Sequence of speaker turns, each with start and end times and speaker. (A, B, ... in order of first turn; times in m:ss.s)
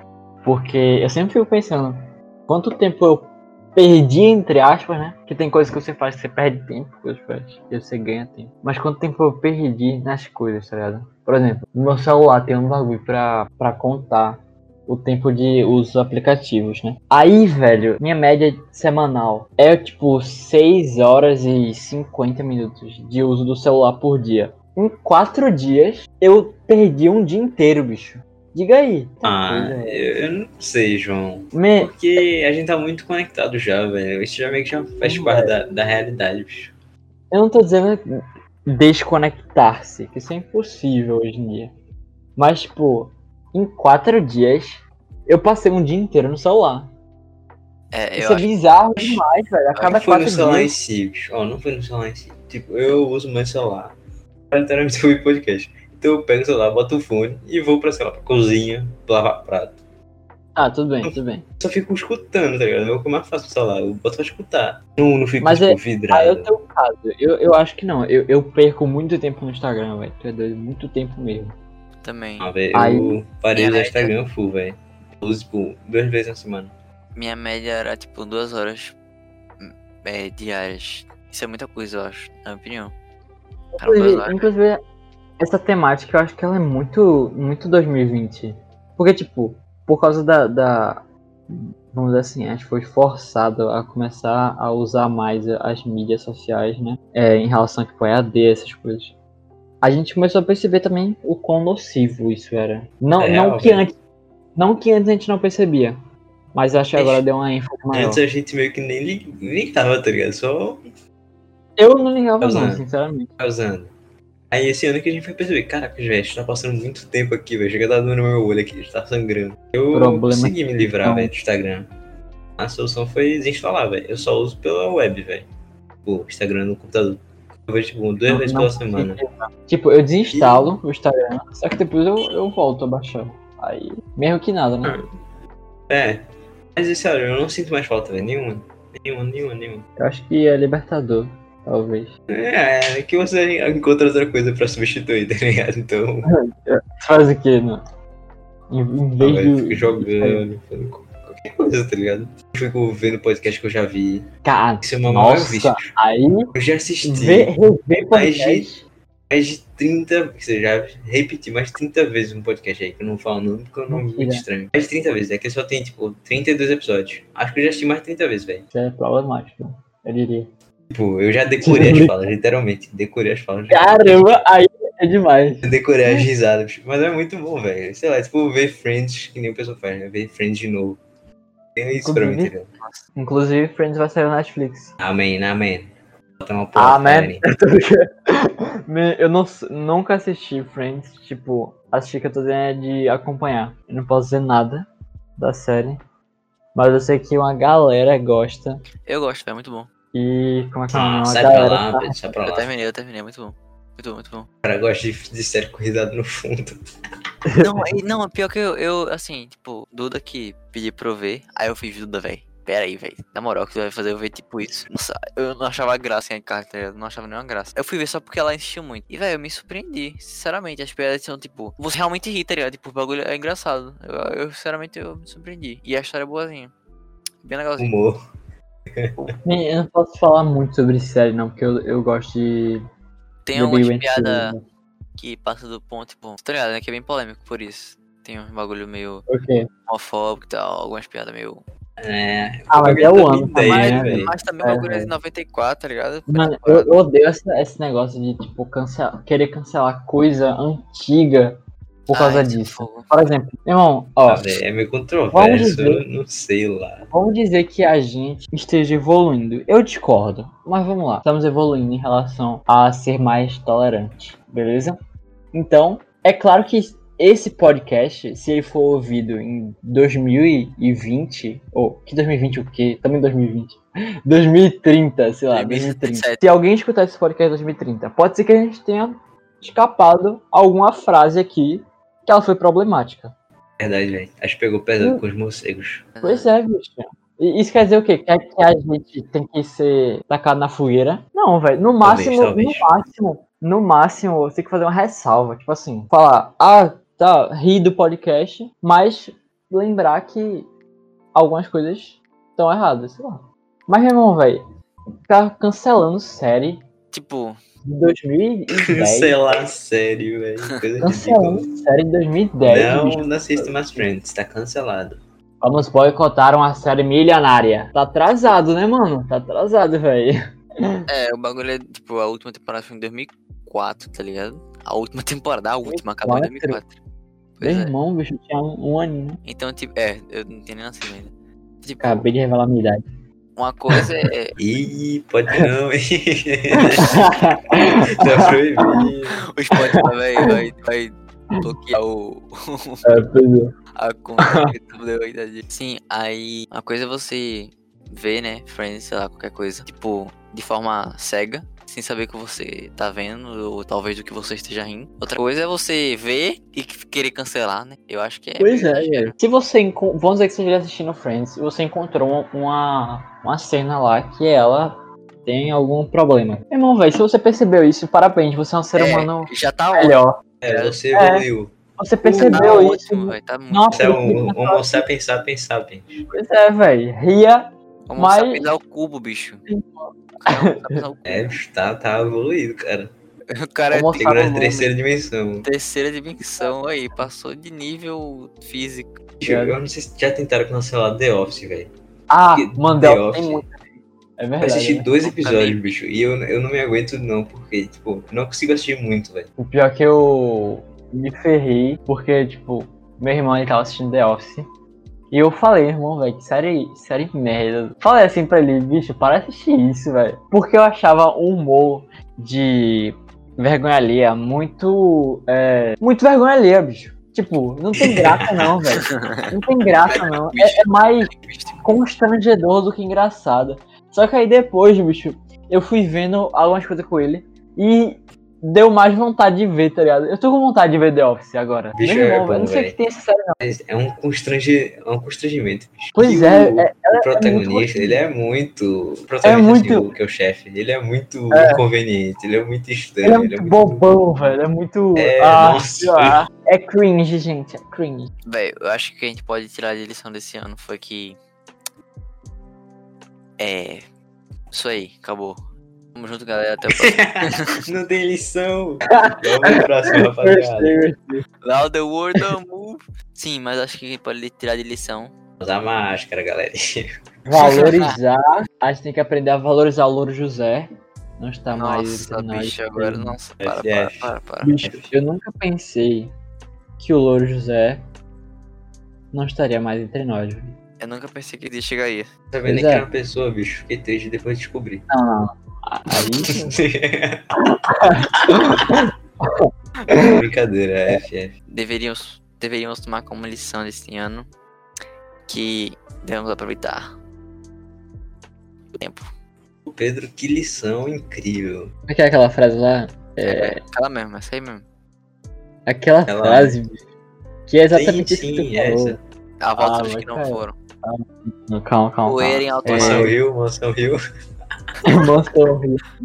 0:00.4-0:30.1 A
0:29.2-0:36.7 B
0:31.5-0:32.0 A
0:35.0-0:35.6 A
0:37.3-0:38.0 A
0:38.7-0:41.7 A
0:42.4-0:46.9 A
0:47.9-0:48.5 C
0:48.2-0:50.7 A
0:49.8-0:53.9 B
0:54.5-0:59.8 B
1:00.5-1:01.4 A
1:01.0-1:06.5 B
1:05.4-1:11.6 A
1:12.0-1:12.5 C
1:12.4-1:16.7 B
1:12.7-1:13.2 A
1:13.5-1:14.1 C
1:17.2-1:18.9 C
1:19.6-1:22.9 C
1:23.7-1:24.8 A
1:23.8-1:24.5 C
1:25.4-1:31.0 A
1:31.5-1:39.1 A
1:39.8-1:43.9 A
1:43.2-1:43.8 B
1:44.6-1:46.0 A
1:46.5-1:48.2 A
1:47.9-1:50.8 B
1:51.8-1:53.3 A
1:52.4-1:52.8 B
1:53.4-1:53.9 B
1:54.5-2:01.9 B
1:59.9-2:01.3 A
2:02.6-2:05.5 B
2:06.0-2:09.2 B
2:08.3-2:15.0 A
2:10.3-2:10.7 B
2:15.9-2:19.8 B
2:20.0-2:22.1 A
2:22.3-2:26.3 B
2:26.3-2:27.8 A
2:28.7-2:30.4 A
2:29.2-2:34.2 B
2:34.4-2:36.5 A
2:34.8-2:35.9 B
2:36.5-2:37.5 B
2:37.0-2:38.8 A
2:38.1-2:38.8 B
2:39.3-2:48.6 B
2:43.9-2:44.4 A
2:48.7-2:50.5 A
2:50.9-2:54.4 B
2:51.6-2:52.2 A
2:53.7-2:56.2 A
2:55.6-3:01.0 B
3:01.8-3:02.7 B
3:02.0-3:02.5 A
3:03.2-3:04.9 A
3:05.0-3:07.4 B
3:06.8-3:14.8 A
3:15.4-3:16.0 A
3:16.7-3:18.8 A
3:19.0-3:19.9 C
3:20.1-3:22.2 A
3:20.9-3:22.7 B
3:22.4-3:24.5 C
3:24.6-3:26.8 B
3:27.5-3:27.8 A
3:27.6-3:46.7 C
3:47.4-3:47.9 C
3:47.8-3:48.2 B
3:48.9-3:49.3 B
3:49.4-3:52.8 A
3:53.4-3:54.5 C
3:53.6-3:54.6 A
3:55.2-3:59.3 C
3:59.3-3:59.7 A
3:59.9-4:01.6 C
4:02.0-4:04.3 B
4:02.7-4:05.1 A
4:03.6-4:06.9 C
4:06.3-4:14.5 A
4:12.1-4:13.1 C
4:14.3-4:17.1 B
4:15.3-4:16.0 A
4:17.1-4:25.0 A
4:25.5-4:43.3 A
4:35.5-4:36.4 C
4:43.8-4:46.1 B
4:46.2-4:46.5 C
4:46.2-5:00.7 A
4:52.0-4:52.9 B
5:01.3-5:04.6 A
5:05.3-5:06.8 A
5:07.1-5:07.6 C
5:07.8-5:09.5 A
5:08.9-5:11.7 B
5:11.0-5:14.0 A
5:12.6-5:15.2 B
5:15.6-5:21.0 A
5:21.1-5:26.9 C
5:25.8-5:26.8 A
5:27.6-5:27.9 C
5:27.6-5:29.4 A
5:29.4-5:32.2 C
5:32.0-5:33.0 A
5:33.6-5:34.6 C
5:34.6-5:37.5 B
5:36.8-5:39.0 A
5:38.1-5:39.4 B
5:39.5-5:43.1 C
5:39.7-5:40.6 A
5:43.0-5:43.7 A
5:44.0-5:59.3 C
5:44.4-5:44.7 A
5:58.6-6:10.4 A
6:09.0-6:11.0 C
6:10.6-6:13.0 B
6:11.1-6:11.4 A
6:12.0-6:15.0 A
6:12.5-6:14.2 C
6:13.9-6:16.2 B
6:16.3-6:18.7 A
6:18.1-6:19.6 C
6:19.7-6:21.0 A
6:20.4-6:21.6 C
6:21.2-6:23.1 B
6:23.5-6:24.3 C
6:23.9-6:24.9 A
6:24.2-6:25.7 B
6:25.6-6:29.2 C
6:29.4-6:31.9 B
6:29.4-6:29.8 A
6:32.3-6:35.1 A
6:32.5-6:33.6 B
6:34.6-6:39.5 B
6:35.2-6:36.0 C
6:39.6-6:44.6 A
6:45.3-7:01.3 A
6:58.0-6:58.7 B
6:59.0-6:59.5 C
7:00.1-7:01.8 C
7:01.8-7:13.5 A
7:11.9-7:13.0 B
7:13.6-7:24.0 B
7:16.2-7:18.2 A
7:19.4-7:20.1 A
7:21.5-7:21.8 A
7:23.2-7:28.3 A
7:25.2-7:26.4 B
7:28.5-7:31.4 C
7:33.6-7:34.0 C
7:34.7-7:35.6 C
7:36.1-7:37.8 C
7:36.9-7:40.9 B
7:39.2-7:41.4 A
7:41.6-7:45.3 C
7:45.6-7:47.9 B
7:47.5-7:50.9 A
7:47.6-7:48.1 C
7:51.4-7:53.4 A
7:51.7-7:55.1 C
7:53.6-7:54.3 B
7:54.6-7:56.3 A
7:57.0-7:58.0 A
7:59.3-8:00.7 A
8:01.0-8:02.3 C
8:02.5-8:05.0 B
8:02.6-8:03.1 A
8:05.1-8:06.6 A
8:06.5-8:07.5 B
8:07.6-8:10.3 A
8:10.2-8:11.5 B
8:11.7-8:14.5 C
8:15.5-8:17.1 C
8:18.9-8:19.3 C
8:19.8-8:21.9 B
8:22.1-8:23.8 A
8:23.4-8:24.8 C
8:25.8-8:27.0 A
8:26.3-8:26.8 B
8:27.7-8:29.2 A
8:27.9-8:29.2 B
8:29.6-8:30.7 C
8:29.8-8:33.3 A
8:32.2-8:33.3 C
8:32.8-8:34.2 B
8:35.0-8:36.0 A